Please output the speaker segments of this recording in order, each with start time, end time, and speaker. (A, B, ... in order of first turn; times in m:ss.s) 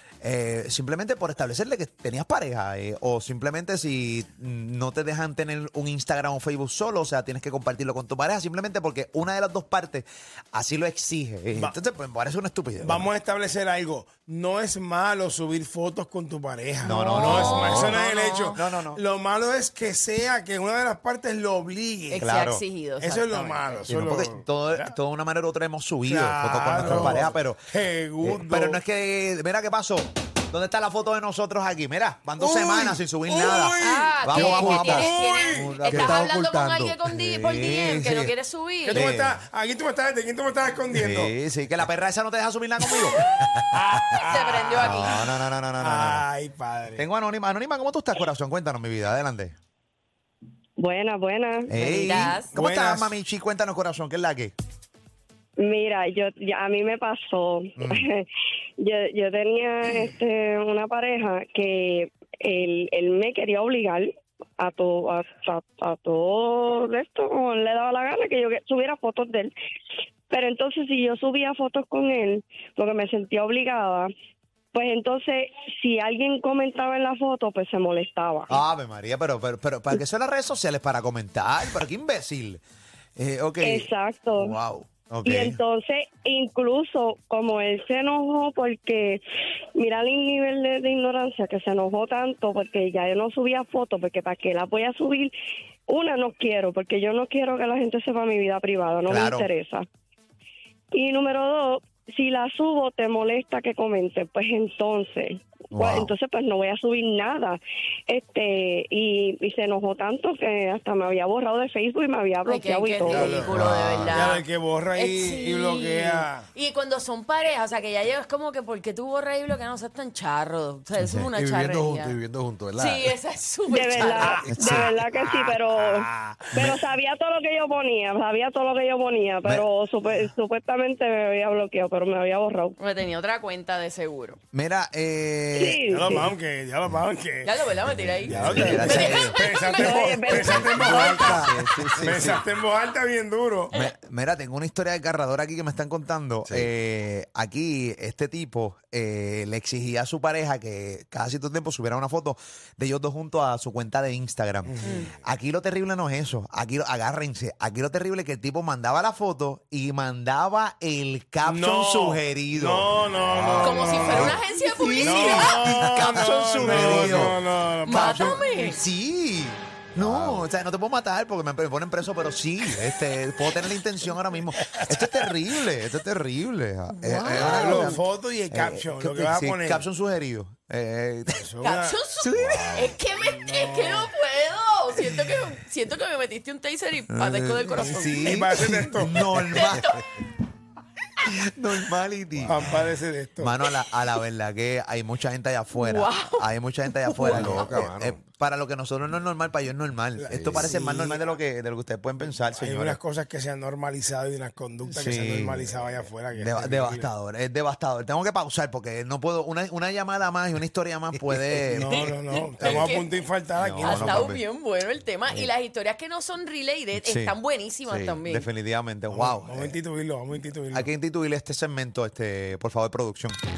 0:00.2-0:13.0 A
0:12.8-0:22.2 B
0:16.8-0:18.0 A
0:17.1-0:18.6 C
0:18.5-0:19.0 A
0:22.1-0:23.9 C
0:22.2-0:22.6 A
0:23.0-0:24.9 B
0:23.9-0:27.6 A
0:26.0-0:28.8 B
0:28.2-0:36.3 A
0:32.4-0:35.9 B
0:33.8-0:39.0 C
0:36.0-0:36.4 D
0:36.9-0:38.3 A
0:38.8-0:41.3 B
0:38.9-0:39.4 A
0:40.9-0:43.2 A
0:43.7-0:47.0 B
0:44.1-0:45.2 C
0:44.8-0:46.2 A
0:47.0-0:49.5 A
0:50.8-0:51.9 E
0:51.7-0:54.5 A
0:51.8-0:52.5 C
0:52.4-0:53.1 B
0:55.6-0:58.2 E
0:57.8-0:58.1 A
0:58.8-1:09.5 E
1:10.3-1:14.1 E
1:14.7-1:18.6 E
1:18.5-1:22.6 A
1:23.2-1:25.6 A
1:23.6-1:24.5 E
1:25.2-1:29.2 E
1:29.8-1:35.3 E
1:35.9-1:39.9 E
1:39.1-1:39.5 A
1:40.9-1:53.4 E
1:45.7-1:46.1 A
1:52.5-2:02.2 C
1:53.1-1:56.5 B
1:53.5-1:54.3 A
2:01.0-2:01.3 A
2:01.4-2:03.1 D
2:02.8-2:04.5 C
2:03.7-2:12.8 E
2:04.1-2:06.8 B
2:04.5-2:04.9 A
2:12.8-2:14.4 C
2:14.5-2:16.3 A
2:15.6-2:16.3 E
2:15.9-2:17.6 B
2:17.4-2:20.1 C
2:18.2-2:23.7 B
2:18.3-2:19.4 A
2:19.4-2:21.3 E
2:20.3-2:22.4 A
2:23.7-3:01.5 A
2:34.7-2:35.0 B
2:34.8-2:35.1 C
2:41.4-2:44.4 B
2:43.6-2:45.8 C
2:45.0-2:48.4 B
2:47.8-2:48.8 C
2:50.0-2:50.3 D
2:54.6-2:55.3 B
2:57.0-2:58.0 C
2:57.2-2:59.8 B
3:01.3-3:02.0 B
3:01.6-3:08.4 C
3:02.2-3:03.0 A
3:03.1-3:04.1 B
3:07.1-3:09.9 A
3:07.8-3:09.5 B
3:09.4-3:10.1 C
3:11.2-3:23.0 A
3:12.5-3:13.5 B
3:15.7-3:16.5 C
3:17.1-3:17.8 C
3:17.2-3:18.2 D
3:20.2-3:21.3 B
3:22.5-3:27.1 B
3:24.9-3:25.7 A
3:26.3-3:32.9 A
3:31.7-3:34.3 B
3:31.9-3:33.1 C
3:33.6-3:34.4 A
3:33.8-3:38.5 C
3:35.3-3:35.5 A
3:37.0-3:37.4 A
3:37.9-3:38.2 D
3:38.2-3:39.8 A
3:39.1-3:40.9 B
3:40.7-3:43.4 A